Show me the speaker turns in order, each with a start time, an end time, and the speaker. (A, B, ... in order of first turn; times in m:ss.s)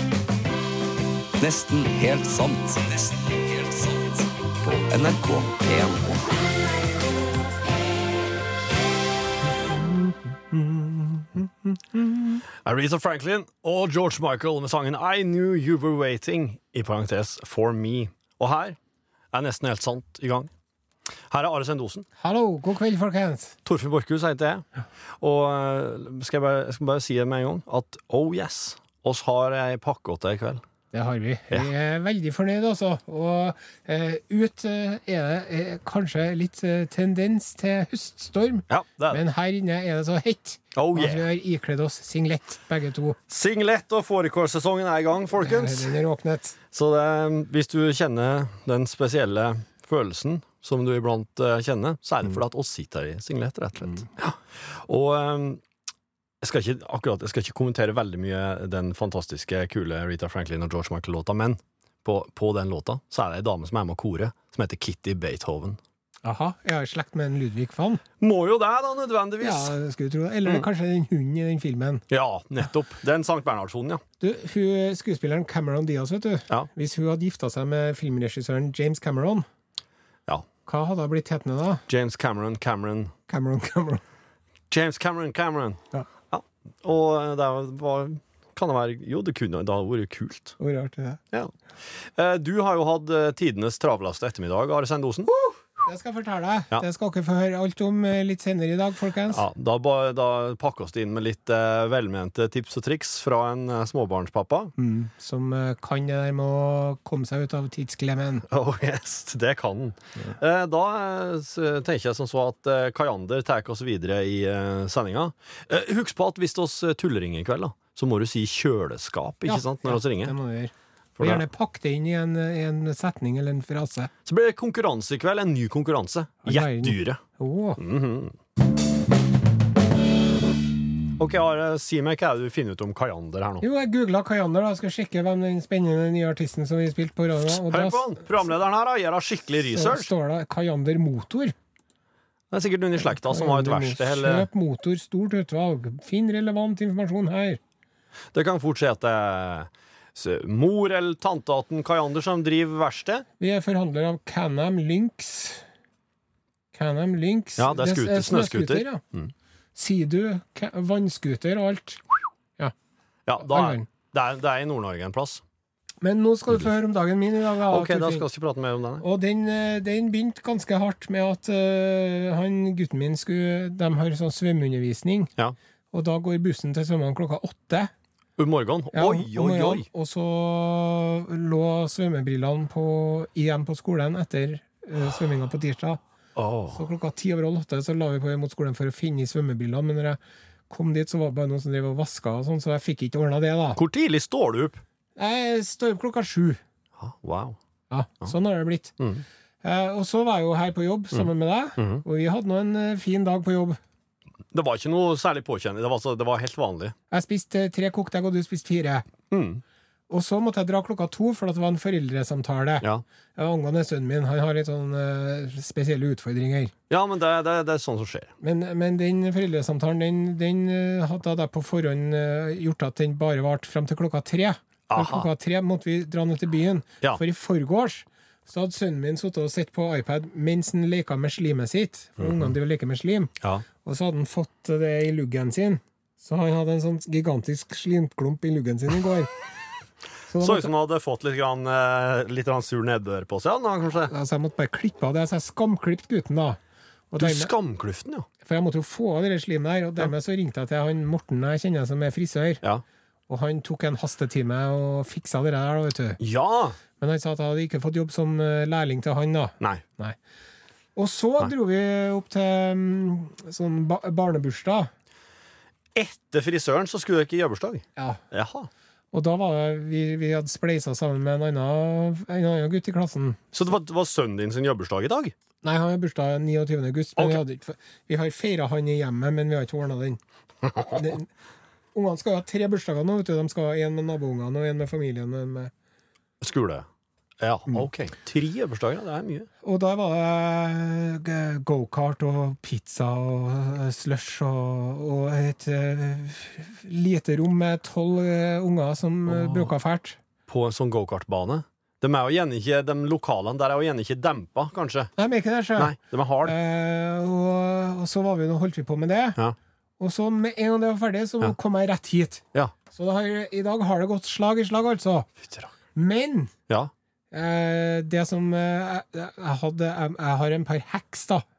0:01.4-0:06.5 A
0:09.6-0:12.4 B
0:12.6-0:18.8 C
0:19.3-0:20.5 C
0:21.3-0:22.0 C
0:22.2-0:23.6 B
0:23.6-0:24.6 C
0:25.2-0:30.6 C
0:30.9-0:43.2 B
0:38.7-0:39.2 C
0:40.8-0:41.3 C
0:43.3-0:46.0 C
0:45.4-0:46.6 B
0:46.7-0:55.6 C
0:56.4-1:05.8 C
1:06.2-1:08.0 B
1:08.2-1:09.8 C
1:09.4-1:12.0 B
1:12.1-1:14.0 C
1:14.2-1:19.5 B
1:20.7-1:21.8 B
1:21.9-1:23.1 C
1:23.3-1:24.0 B
1:24.7-1:30.6 C
1:30.6-1:31.2 B
1:31.3-1:35.3 C
1:35.8-1:39.4 B
1:39.3-1:44.7 C
1:44.8-1:48.4 B
1:48.5-2:00.4 C
1:59.5-2:04.1 B
2:01.2-2:01.5 C
2:04.2-2:07.2 C
2:06.4-2:07.8 B
2:07.8-2:08.4 C
2:11.2-2:13.7 C
2:13.6-2:18.2 B
2:17.5-2:20.1 C
2:19.6-2:21.5 B
2:22.5-2:24.5 C
2:23.0-2:27.6 B
2:28.3-2:33.2 C
2:33.4-2:35.6 B
2:36.7-2:39.0 B
2:37.6-2:39.3 C
2:39.8-2:42.0 B
2:43.3-2:45.4 C
2:43.4-2:43.9 B
2:46.0-2:48.3 B
2:47.7-2:49.0 C
2:49.0-2:55.3 B
2:55.9-2:57.9 B
2:58.4-2:59.9 C
2:58.9-3:06.0 B
3:06.4-3:06.8 C
3:06.7-3:10.2 B
3:10.7-3:13.8 B
3:13.8-3:14.8 C
3:15.2-3:16.6 B
3:17.0-3:17.6 C
3:17.9-3:19.0 B
3:19.0-3:19.2 C
3:19.6-3:23.8 B
3:21.1-3:22.0 C
3:24.5-3:27.0 C
3:27.1-3:29.1 B
3:29.3-3:29.6 C
3:30.1-3:36.7 B
3:36.9-3:38.3 C
3:38.4-3:53.3 B
3:44.9-3:45.3 C
3:52.2-3:52.5 C
3:53.4-3:53.7 C
3:53.8-3:59.3 B
4:00.3-4:00.7 B
4:00.4-4:04.1 C
4:04.1-4:06.6 B
4:07.1-4:07.5 B
4:07.2-4:08.3 C
4:08.4-4:12.6 B
4:13.3-4:16.2 B
4:16.2-4:16.8 C
4:17.0-4:20.2 B
4:21.0-4:24.9 B
4:26.0-4:28.7 C
4:29.1-4:33.4 B
4:33.5-4:35.3 C
4:35.6-4:40.2 B
4:40.6-4:41.0 C
4:40.9-4:41.3 B
4:41.9-4:45.7 B
4:46.4-4:46.9 C
4:47.4-4:49.5 C
4:49.6-5:00.2 B
4:59.3-4:59.7 C
5:00.5-5:05.1 C
5:05.2-5:09.4 B
5:05.8-5:06.6 C
5:10.0-5:15.3 B
5:15.4-5:15.7 C
5:16.0-5:16.5 B
5:17.3-5:21.4 B